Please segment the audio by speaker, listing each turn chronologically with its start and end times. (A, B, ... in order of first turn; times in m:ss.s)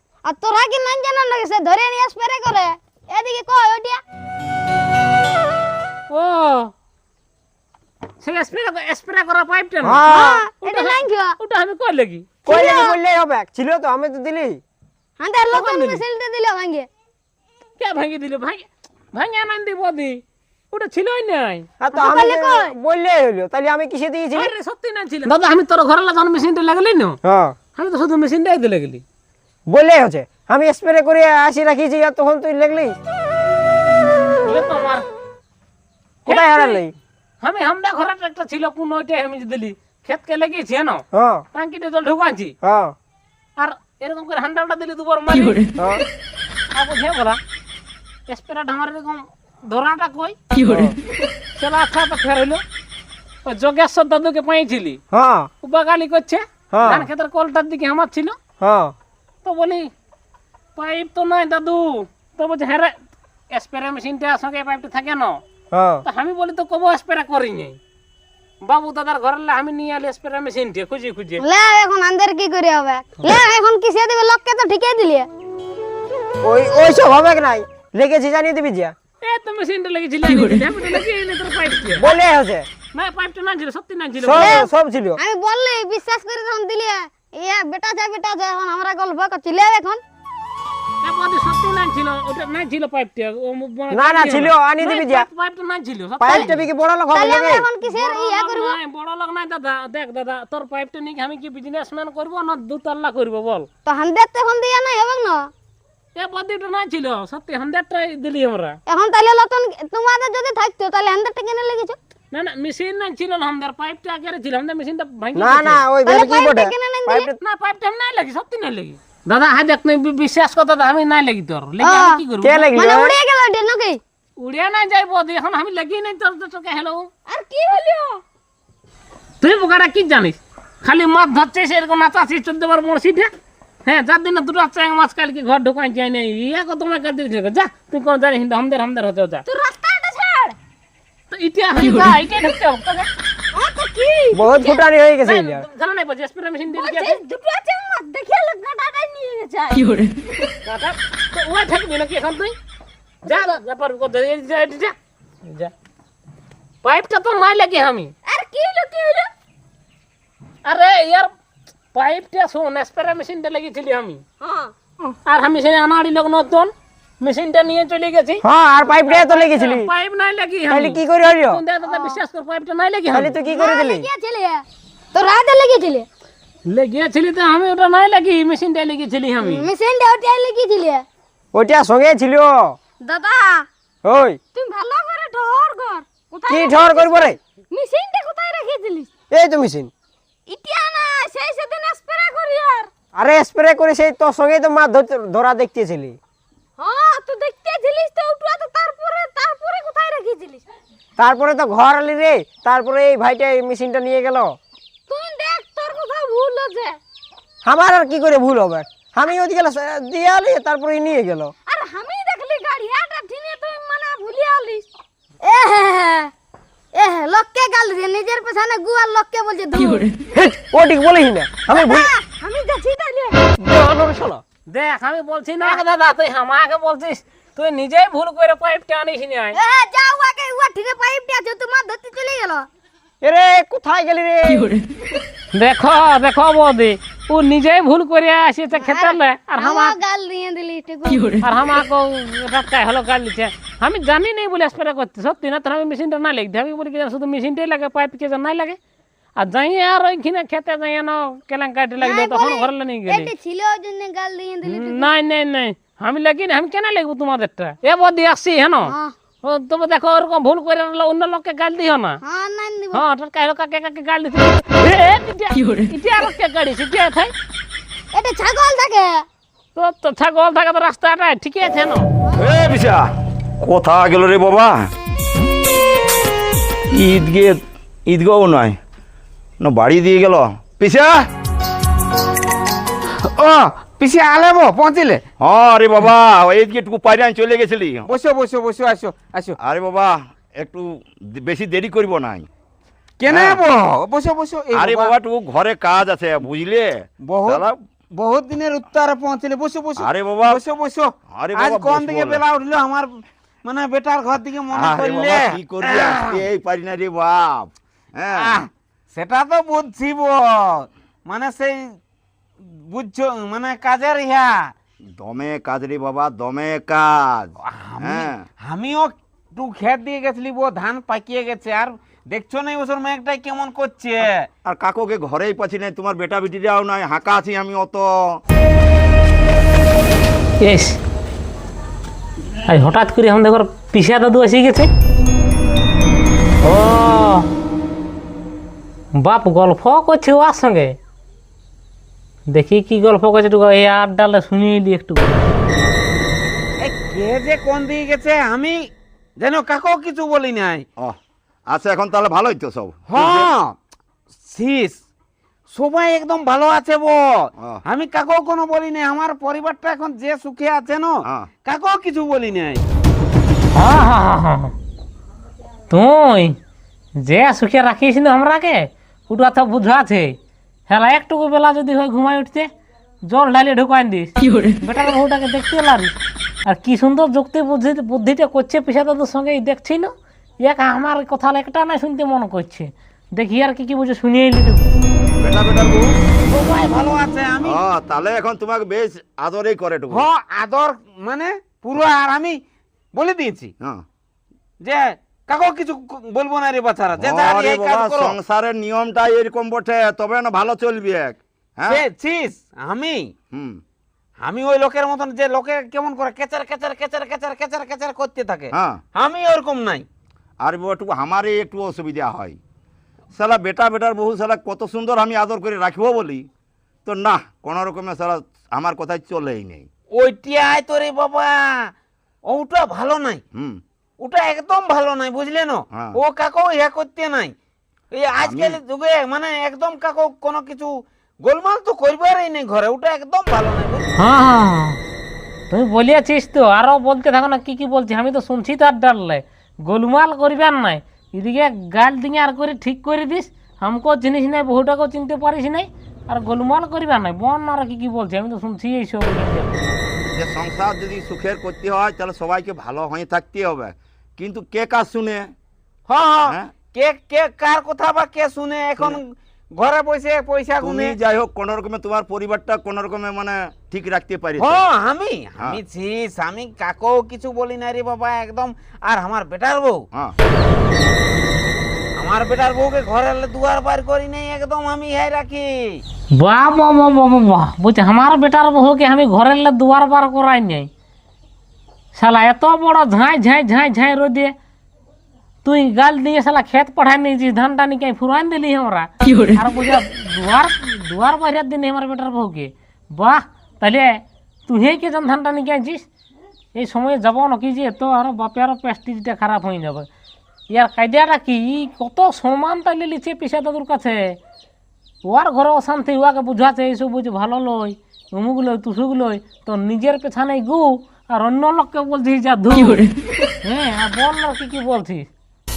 0:00.2-0:04.0 A
0:06.1-0:06.7 B
0:08.2-0:12.3 B
0:09.8-0:10.4 C
0:10.1-0:11.4 A
0:12.4-0:13.0 A
0:12.4-0:14.6 C
0:15.2-0:16.9 A
0:15.5-0:16.0 B
0:17.8-0:21.7 B
0:21.8-0:24.5 C
0:21.9-0:22.7 A
0:24.3-0:27.2 B
0:27.2-0:27.6 C
0:27.8-0:29.0 B
0:29.7-0:33.0 C
0:34.4-0:35.0 B
0:36.2-0:36.8 B
0:36.2-0:36.9 C
0:37.4-0:42.5 B
0:41.1-0:41.4 C
0:42.6-0:42.9 C
0:43.6-0:45.7 B
0:45.8-0:46.0 C
0:46.7-0:47.4 B
0:48.3-0:50.4 B
0:50.6-0:51.0 C
0:51.6-0:52.6 B
0:53.4-0:55.0 B
0:55.1-0:55.5 C
0:55.6-0:58.4 B
0:56.7-0:57.1 C
0:58.6-0:58.9 C
0:59.4-0:59.9 B
1:00.8-1:03.0 B
1:03.5-1:05.4 B
1:05.7-1:06.0 C
1:06.0-1:07.8 B
1:08.6-1:11.4 B
1:11.4-1:15.3 A
1:16.4-1:18.9 C
1:19.2-1:22.1 B
1:22.0-1:22.7 C
1:22.9-1:24.7 B
1:24.2-1:25.2 C
1:24.4-1:24.7 A
1:25.2-1:30.0 A
1:31.0-1:36.6 B
1:33.9-1:35.2 C
1:36.2-1:37.7 C
1:37.1-1:38.8 A
1:37.8-1:43.7 B
1:43.8-1:45.5 A
1:46.2-1:48.8 B
1:48.9-1:52.0 A
1:52.3-1:55.8 B
1:55.3-1:57.4 C
1:56.0-1:57.3 A
1:57.4-2:02.7 B
2:01.8-2:02.2 A
2:02.4-2:03.2 C
2:02.7-2:04.0 A
2:04.4-2:07.1 B
2:07.3-2:08.2 A
2:09.4-2:13.3 B
2:13.8-2:19.4 B
2:19.5-2:20.6 A
2:21.3-2:23.1 B
2:23.5-2:24.8 A
2:24.3-2:25.6 C
2:25.2-2:27.2 B
2:26.7-2:30.0 A
2:30.6-2:32.5 B
2:33.2-2:35.7 B
2:33.2-2:33.5 A
2:36.8-2:38.1 B
2:38.3-2:39.3 A
2:40.6-2:41.3 B
2:41.9-2:44.2 B
2:44.4-2:45.1 A
2:45.2-2:48.4 B
2:48.4-2:49.9 C
2:49.0-2:53.4 B
2:50.7-2:51.6 C
2:51.9-2:52.2 A
2:53.1-2:54.1 C
2:53.4-2:56.0 A
2:56.7-2:59.7 B
2:59.4-3:01.0 A
3:01.5-3:02.8 C
3:03.0-3:03.7 A
3:04.0-3:04.4 C
3:04.5-3:09.1 A
3:06.5-3:07.4 C
3:09.3-3:09.9 C
3:10.5-3:12.9 A
3:13.1-3:16.2 C
3:16.8-3:20.6 A
3:21.2-3:24.6 C
3:25.1-3:27.0 A
3:27.6-3:31.5 C
3:31.7-3:34.9 A
3:35.4-3:36.3 A
3:36.9-3:40.1 A
3:40.3-3:42.1 C
3:41.7-3:43.4 A
3:43.6-3:49.6 B
3:49.5-3:52.7 A
3:53.2-3:54.8 C
3:55.5-4:00.0 B
3:58.8-4:01.4 A
4:01.4-4:08.8 B
4:09.4-4:13.3 B
4:12.0-4:15.1 A
4:14.6-4:22.2 B
4:18.8-4:19.1 A
4:22.2-4:23.0 A
4:22.9-4:27.3 B
4:28.1-4:29.2 A
4:29.8-4:32.1 B
4:32.4-4:33.0 D
4:33.6-4:34.9 D
4:36.9-4:38.8 D
4:39.6-4:41.2 D
4:43.2-4:45.2 E
4:45.4-4:48.1 D
4:48.1-4:49.6 E
4:49.6-4:52.5 D
4:53.2-4:55.1 E
4:53.3-4:53.6 D
4:54.7-4:57.8 D
4:57.2-5:03.1 E
5:00.0-5:00.6 D
5:01.3-5:02.4 D
5:03.6-5:06.4 E
5:04.7-5:08.6 D
5:08.3-5:11.9 E
5:12.6-5:14.7 E
5:15.2-5:18.4 D
5:17.6-5:24.5 E
5:24.2-5:28.4 D
5:30.6-5:31.0 B
5:32.6-5:34.9 B
5:36.6-5:37.4 B
5:39.2-5:41.0 B
5:42.5-5:45.4 B
5:46.8-5:48.8 E
5:49.4-5:50.8 E
5:51.7-5:53.5 D
5:53.1-5:53.8 E
5:54.4-5:55.0 E
5:55.7-6:02.8 E
6:03.7-6:04.7 B
6:05.9-6:06.6 B
6:07.2-6:10.4 B
6:10.9-6:12.7 B
6:13.3-6:24.9 B
6:25.4-6:26.1 D
6:26.5-6:27.8 E
6:27.6-6:30.2 D
6:30.1-6:32.6 E
6:33.1-6:33.7 E
6:34.8-6:38.4 E
6:37.2-6:42.0 D
6:41.8-6:43.3 E
6:43.5-6:43.8 D
6:44.4-6:50.0 E
6:48.7-6:49.0 D
6:50.6-6:52.6 D
6:53.3-6:56.4 D
6:57.0-6:59.9 D
7:00.1-7:01.9 E
7:02.4-7:03.4 E
7:03.5-7:03.8 D
7:04.2-7:07.5 E
7:05.9-7:06.2 D
7:08.1-7:14.1 E
7:08.4-7:08.8 D
7:14.2-7:15.0 B
7:15.7-7:29.7 B
7:30.4-7:35.5 D
7:36.1-7:41.1 E
7:40.8-7:44.8 D
7:44.6-7:50.0 E
7:52.2-7:56.0 E
7:56.3-8:00.9 B
8:02.1-8:04.5 B
8:05.6-8:16.0 B
8:16.8-8:20.1 B
8:20.7-8:24.4 B
8:25.2-8:33.0 B
8:33.6-8:35.3 B